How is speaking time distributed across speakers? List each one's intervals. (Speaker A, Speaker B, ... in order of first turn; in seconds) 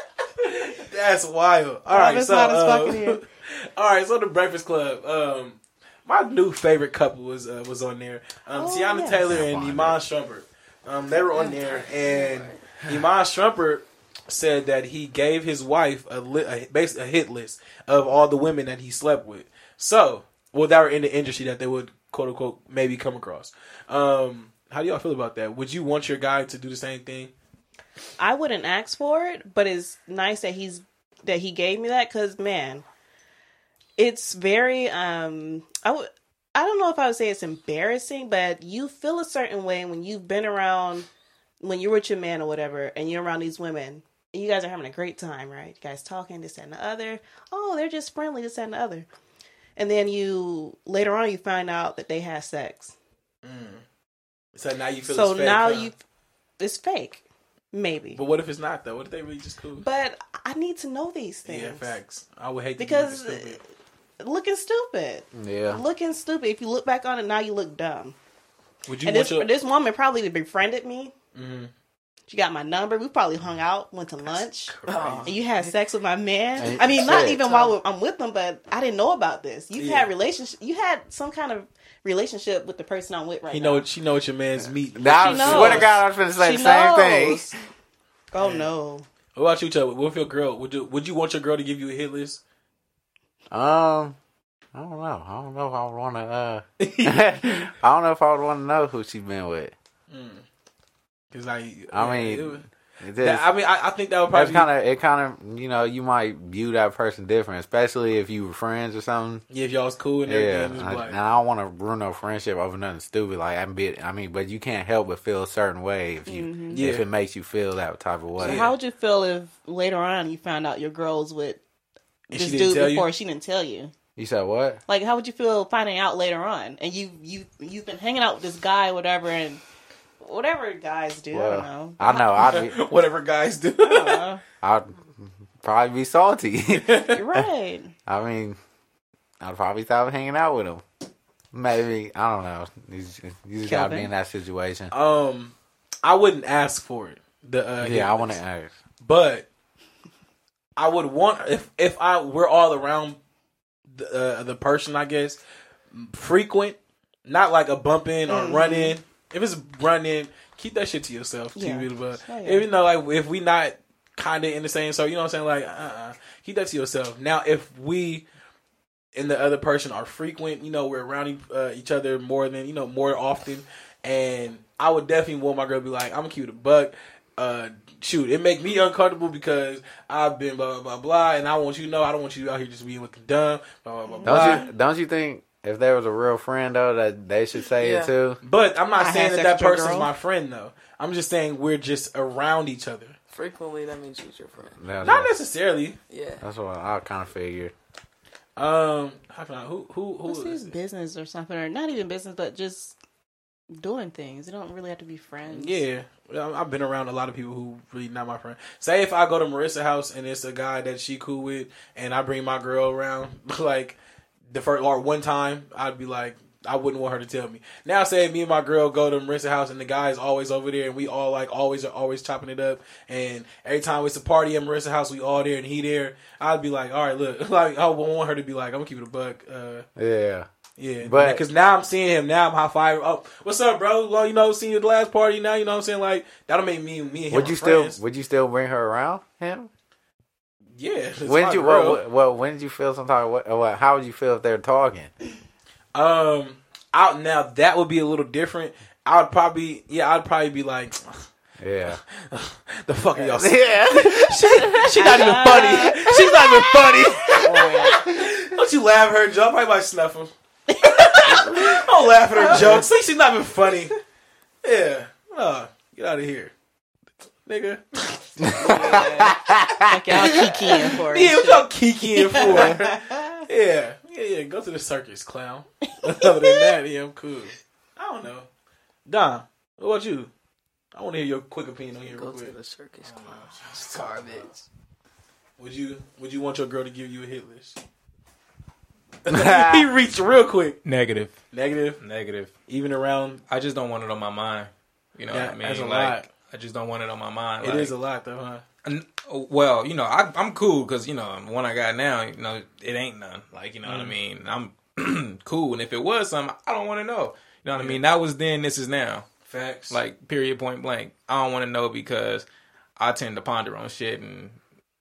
Speaker A: 0.4-27.3, 53.4-53.8, 54.5-55.9, 58.1-59.9, 61.4-63.6, 68.9-69.5, 71.3-71.7, 74.3-75.4, 79.7-80.1, 83.5-85.9, 88.4-88.7, 89.3-92.4, 96.8-97.7, 100.1-100.4, 101.3-102.6, 103.2-104.7, 109.5-111.2, 116.7-117.1, 118.4-118.7, 122.3-123.1, 132.3-134.2, 136.7-137.2, 143.7-144.0, 144.9-148.4, 149.0-149.5, 150.8-153.2, 153.9-155.4, 155.9-168.2, 169.1-184.7, 188.4-193.2, 195.0-196.0, 198.6-200.7, 205.5-214.0, 214.5-229.8, 230.8-238.0, 240.8-242.0, 245.9-251.2, 251.9-263.9, 264.6-266.5, 267.4-269.1, 270.4-278.5, 279.1-280.3, 280.9-284.5, 285.6-287.8, 289.2-290.8, 291.5-292.0, 292.7-293.4, 295.3-296.3, 297.6-298.6, 303.8-304.1, 307.7-308.0, 309.4-310.0
Speaker B: 1.9-3.2, 8.5-9.2, 28.2-32.8, 34.0-41.1, 41.6-49.1, 49.8-52.9, 55.1-56.0, 56.6-58.2, 59.8-61.9, 62.8-63.6, 64.2-68.2, 69.0-71.1, 72.3-83.8, 85.1-87.6, 88.3-89.0, 116.2-116.8, 118.4-121.6, 122.3-123.9, 124.9-129.6, 130.2-132.6, 133.8-134.4, 137.1-137.9, 143.7-144.0, 158.3-158.9, 161.5-162.7, 184.1-184.6, 189.0-190.1, 200.3-202.9, 203.7-205.8, 254.7-256.1, 257.2-258.1, 260.7-261.5, 268.5-273.4, 276.1-276.7
Speaker C: 9.2-10.0, 65.3-65.8, 76.6-77.6, 84.6-87.5, 93.5-94.2, 94.7-99.7, 101.9-103.5, 104.3-109.4, 110.2-118.7, 124.2-124.8, 131.3-132.8, 134.6-137.5, 138.1-138.6, 139.4-140.8, 141.5-144.9, 147.8-148.7, 184.2-188.4, 194.8-195.3, 196.4-197.7, 229.9-230.5, 231.0-231.4, 237.3-239.7, 241.2-245.1, 251.6-252.0, 253.2-254.9, 255.5-258.0, 261.2-261.8, 262.4-262.8, 268.4-270.5, 289.3-289.9
Speaker D: 11.3-12.6, 74.8-75.5, 77.5-77.7, 187.8-188.1, 193.3-194.8, 196.1-196.4, 282.1-284.6
Speaker E: 290.8-291.4, 292.0-292.5, 293.5-297.9, 298.8-309.3, 309.9-312.4, 313.0-314.6